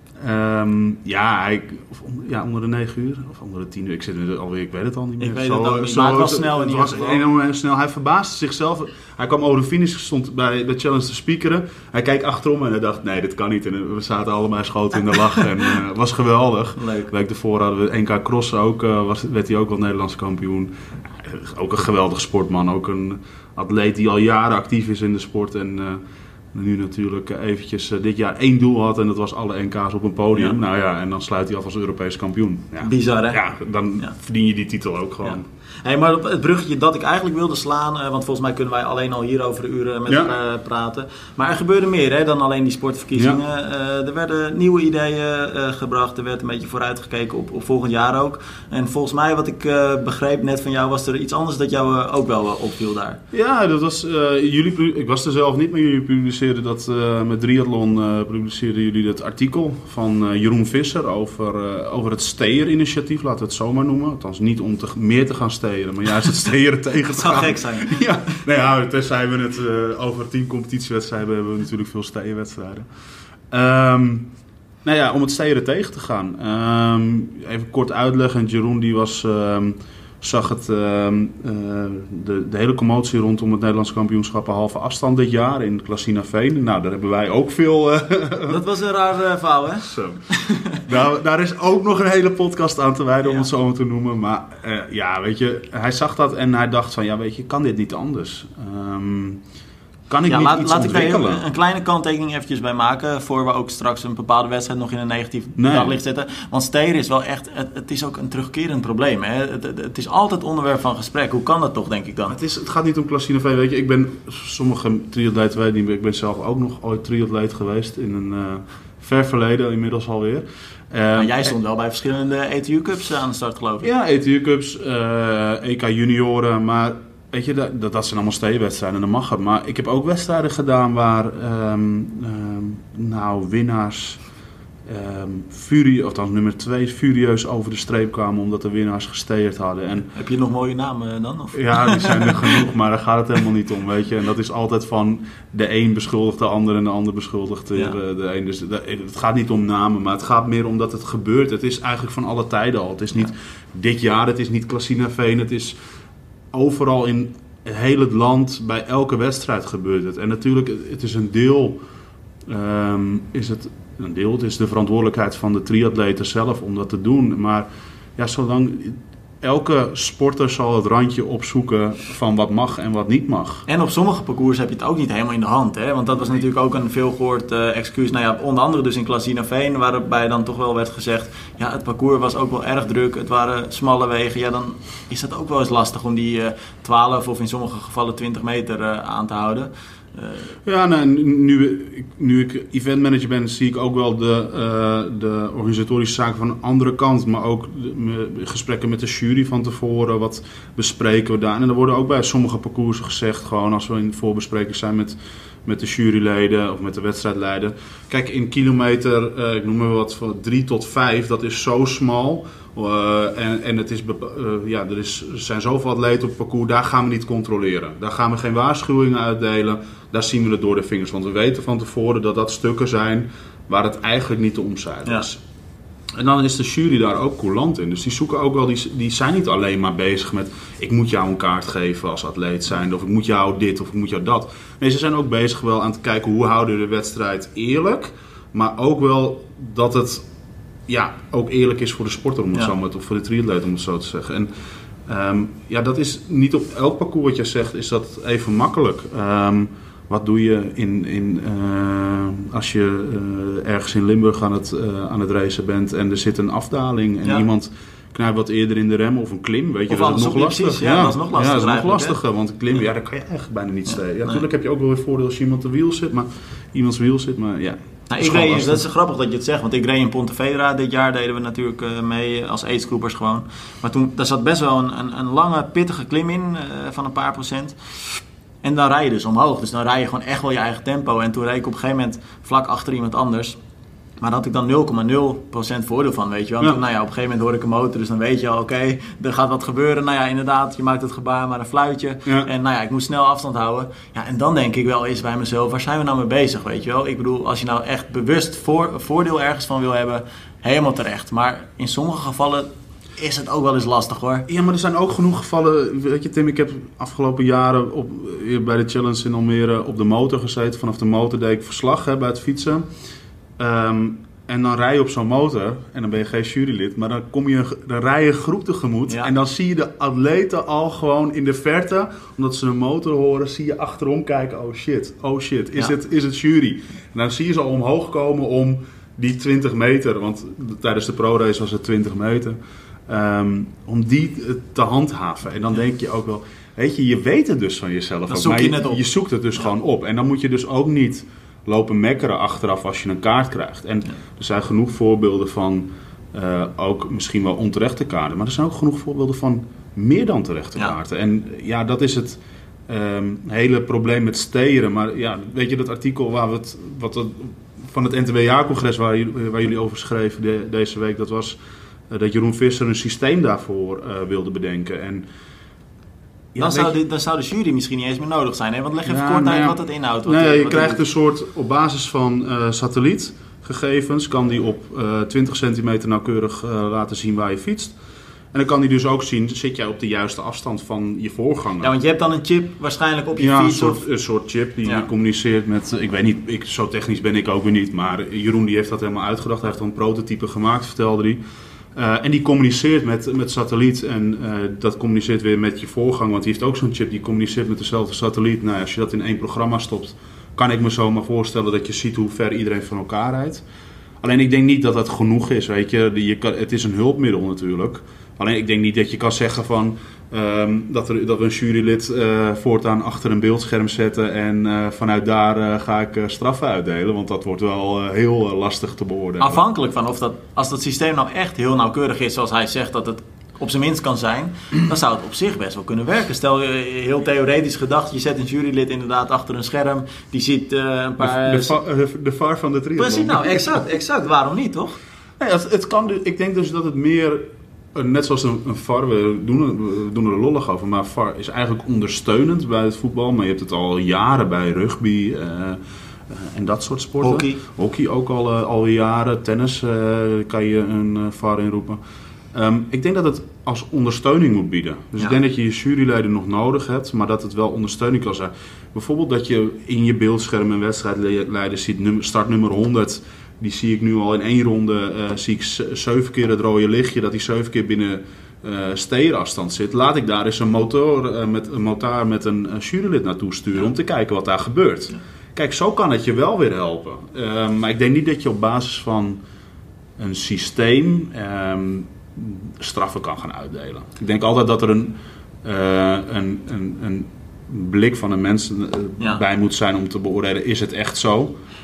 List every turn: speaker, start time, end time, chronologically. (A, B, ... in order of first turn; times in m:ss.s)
0:00.2-0:26.0 A
0:05.2-0:07.2 B
0:16.8-0:17.1 B
0:26.5-0:35.4 A
0:32.8-0:33.4 B
0:35.2-0:53.2 B
0:40.1-0:40.3 A
0:53.3-1:12.9 A
1:07.0-1:08.0 B
1:13.5-1:14.3 A
1:14.8-1:28.6 A
1:28.5-1:30.8 B
1:29.9-1:30.2 A
1:30.8-1:39.4 A
1:40.1-1:41.4 A
1:40.2-1:52.4 B
1:45.6-1:46.0 A
1:52.3-2:01.4 A
2:01.2-2:03.9 B
2:03.8-2:14.2 A
2:14.9-2:20.1 A
2:20.2-2:22.6 B
2:21.5-2:35.8 A
2:36.5-2:41.8 A
2:42.5-2:53.7 A
2:53.7-3:10.5 B
3:10.6-3:45.4 A
3:46.2-4:00.3 A
4:00.9-4:04.5 A
4:05.1-4:28.8 A
4:19.9-4:22.2 B
4:28.1-4:37.8 B
4:38.6-4:43.6 B
4:44.2-5:04.5 B
5:04.5-5:12.9 A
5:13.6-6:01.6 A
5:38.3-5:39.0 B
6:02.1-6:05.2 A
6:06.5-6:07.0 A
6:06.6-6:11.0 B
6:09.1-6:18.0 A
6:18.5-6:21.9 A
6:21.8-6:24.0 B
6:23.4-6:31.4 A
6:31.9-6:43.6 A
6:44.2-6:59.6 A
6:59.4-7:11.8 B
7:11.2-7:13.8 A
7:13.0-7:15.0 B
7:15.4-7:17.4 A
7:18.0-7:32.0 A
7:27.2-7:27.6 B
7:32.5-7:59.4 A
8:00.2-8:11.5 A